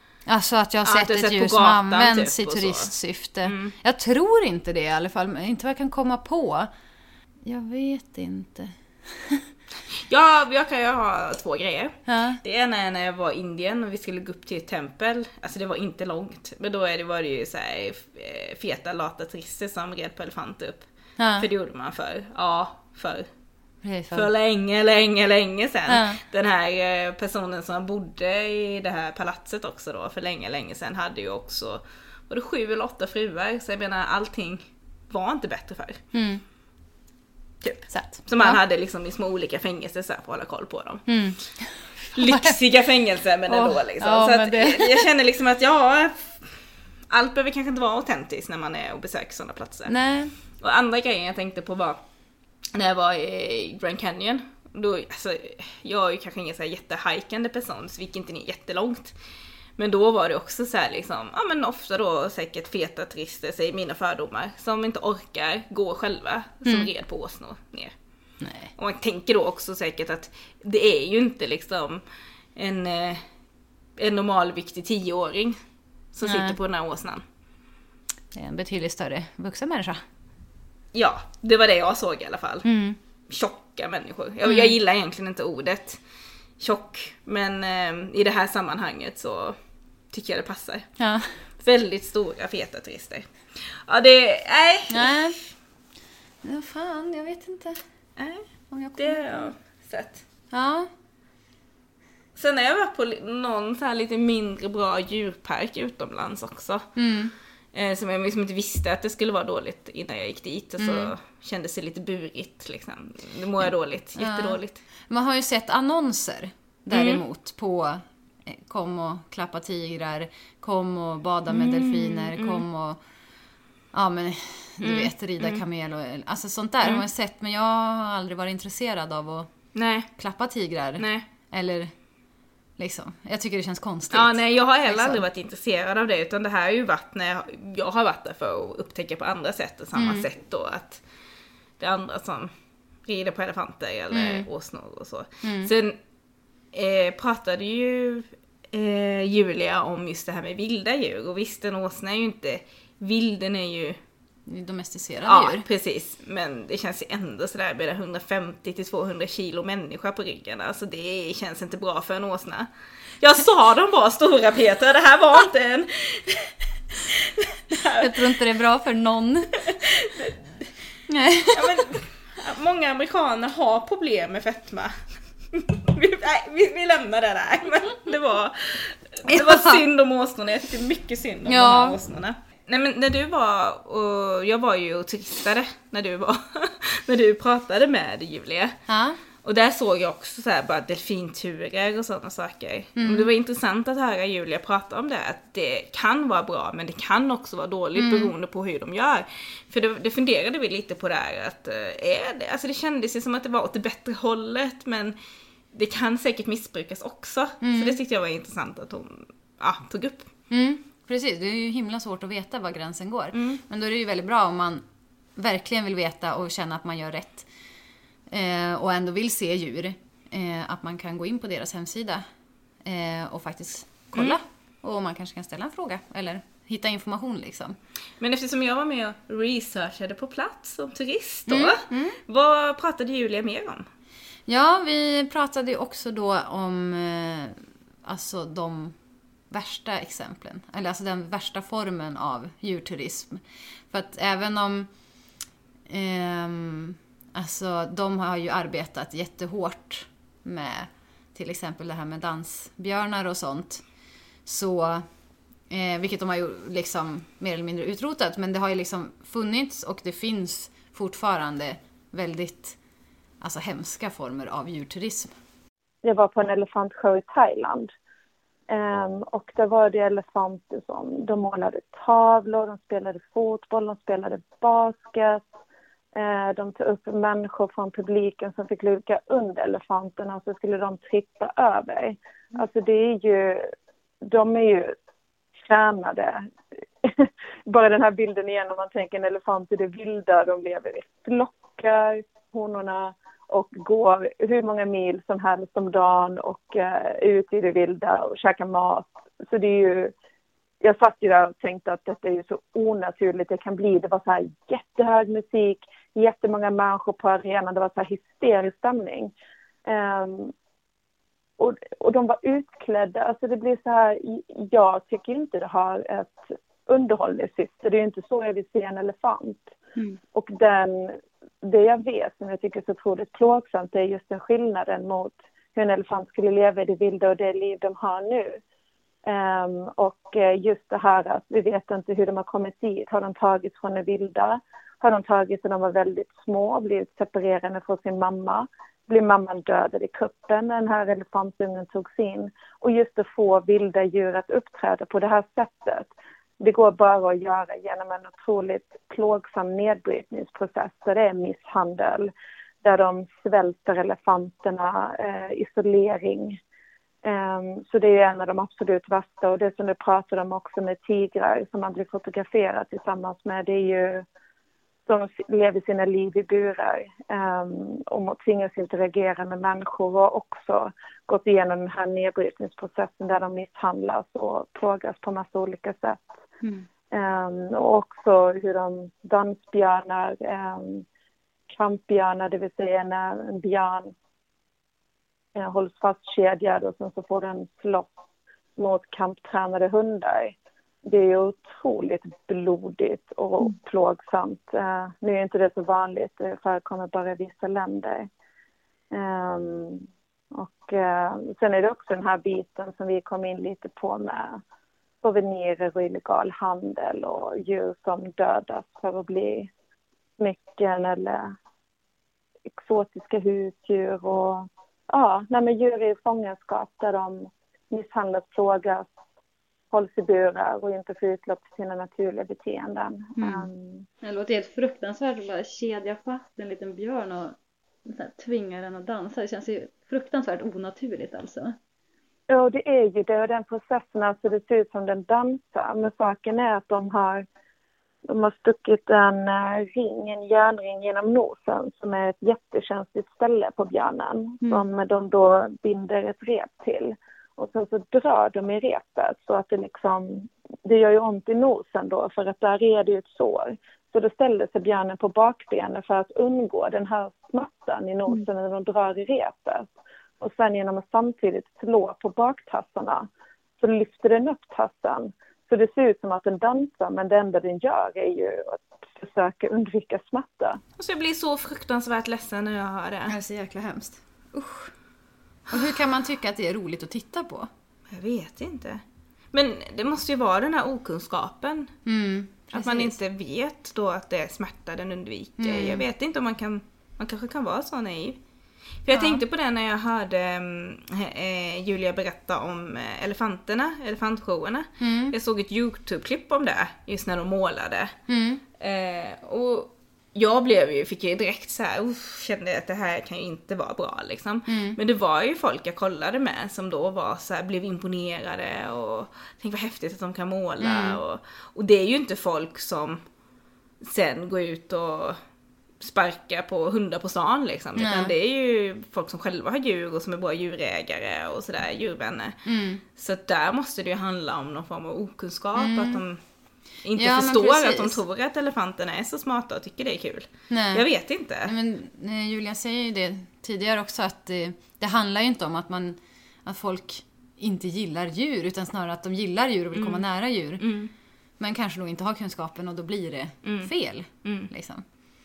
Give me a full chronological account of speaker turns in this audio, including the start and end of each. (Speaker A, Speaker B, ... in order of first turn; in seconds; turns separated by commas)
Speaker A: 0.3-6.7, Speaker B: 0.8-2.9, Speaker B: 3.4-3.7, Speaker A: 7.4-9.4, Speaker B: 10.1-20.9, Speaker A: 12.1-12.4, Speaker A: 21.2-21.5, Speaker B: 21.4-23.3, Speaker A: 23.8-24.3, Speaker B: 24.1-36.0, Speaker A: 25.9-26.2, Speaker A: 36.1-36.4, Speaker B: 37.6-41.1, Speaker A: 37.9-38.6, Speaker A: 41.1-42.6, Speaker B: 42.1-46.4, Speaker A: 43.5-45.1, Speaker B: 47.1-49.9, Speaker A: 49.9-50.3, Speaker B: 50.5-52.0, Speaker B: 52.7-59.1, Speaker B: 59.8-67.9, Speaker A: 68.4-68.7, Speaker B: 68.8-72.0, Speaker B: 72.5-73.2, Speaker B: 74.0-75.6, Speaker B: 76.1-77.2, Speaker A: 76.2-76.5, Speaker A: 78.3-80.0, Speaker B: 80.9-82.7, Speaker A: 82.6-83.0, Speaker B: 83.3-86.0, Speaker A: 84.4-84.7, Speaker B: 86.6-89.6, Speaker B: 90.1-90.9, Speaker A: 91.0-91.4, Speaker B: 91.6-95.1, Speaker A: 94.9-95.3, Speaker A: 96.4-97.8, Speaker B: 98.2-100.2, Speaker A: 98.7-99.5, Speaker A: 100.5-100.9, Speaker B: 102.3-106.8, Speaker A: 107.0-107.3, Speaker B: 107.7-114.8, Speaker A: 110.8-111.1, Speaker A: 114.2-114.6, Speaker A: 115.1-123.0, Speaker B: 116.9-117.2, Speaker B: 121.5-122.6, Speaker A: 123.9-129.5, Speaker B: 124.8-125.6, Speaker B: 129.7-130.1, Speaker A: 130.2-131.9, Speaker B: 131.0-131.2, Speaker A: 132.8-135.2, Speaker B: 134.1-141.0, Speaker A: 139.9-140.3, Speaker B: 141.8-142.5, Speaker B: 143.1-146.0, Speaker A: 144.1-144.4, Speaker A: 145.4-145.7, Speaker B: 146.7-154.0, Speaker A: 154.5-155.6, Speaker B: 155.2-162.7, Speaker B: 163.2-168.4, Speaker A: 168.0-169.6, Speaker B: 169.7-170.7, Speaker A: 171.1-171.8, Speaker B: 171.5-174.9, Speaker B: 175.5-188.8, Speaker A: 179.3-179.8, Speaker A: 181.5-182.0, Speaker A: 188.9-189.2, Speaker B: 189.4-205.1, Speaker A: 192.9-193.3, Speaker A: 198.0-198.3, Speaker B: 205.7-210.3, Speaker A: 207.6-207.9, Speaker A: 210.5-214.8, Speaker B: 213.3-213.6, Speaker A: 215.3-217.5, Speaker A: 218.3-222.2, Speaker A: 222.8-227.8, Speaker B: 228.2-233.8, Speaker A: 231.5-232.2, Speaker A: 234.5-238.9, Speaker A: 239.5-244.9, Speaker A: 245.9-253.8, Speaker A: 254.4-255.1, Speaker A: 255.7-262.8, Speaker A: 263.4-265.3, Speaker C: 266.0-267.9, Speaker C: 268.7-275.4, Speaker C: 276.1-284.9, Speaker C: 285.6-286.5, Speaker C: 287.0-300.1, Speaker C: 300.8-309.3, Speaker C: 309.8-310.5, Speaker C: 311.6-319.7, Speaker C: 320.3-328.6, Speaker C: 329.2-352.3, Speaker C: 352.8-356.6, Speaker C: 357.2-364.2, Speaker C: 365.1-376.3, Speaker C: 377.1-381.1, Speaker C: 381.7-384.1, Speaker C: 385.5-388.1, Speaker C: 388.8-398.3, Speaker C: 399.1-404.6, Speaker C: 405.2-409.7, Speaker C: 410.4-411.5, Speaker C: 412.7-419.1, Speaker C: 419.9-424.1, Speaker D: 423.4-423.7, Speaker D: 424.2-431.8, Speaker C: 432.5-437.4, Speaker C: 438.3-463.3, Speaker C: 463.8-470.8, Speaker B: 471.0-473.3, Speaker A: 473.3-474.9, Speaker A: 475.7-477.7, Speaker B: 478.1-481.9, Speaker A: 482.1-483.1, Speaker B: 482.7-488.4, Speaker A: 485.6-486.1, Speaker B: 489.0-498.1, Speaker A: 489.1-489.4, Speaker A: 495.0-495.3, Speaker A: 498.3-498.6, Speaker B: 498.8-513.2, Speaker A: 504.7-505.0, Speaker A: 510.8-511.2, Speaker B: 514.0-515.4, Speaker B: 516.0-522.6, Speaker A: 518.0-518.3, Speaker A: 522.6-523.0, Speaker B: 523.1-526.4, Speaker A: 525.8-526.2, Speaker B: 527.0-531.7, Speaker A: 527.1-528.2, Speaker A: 530.7-531.0, Speaker A: 531.6-540.8, Speaker B: 539.9-540.2, Speaker B: 540.8-541.1, Speaker A: 541.6-545.0, Speaker B: 543.6-543.9, Speaker B: 544.4-544.7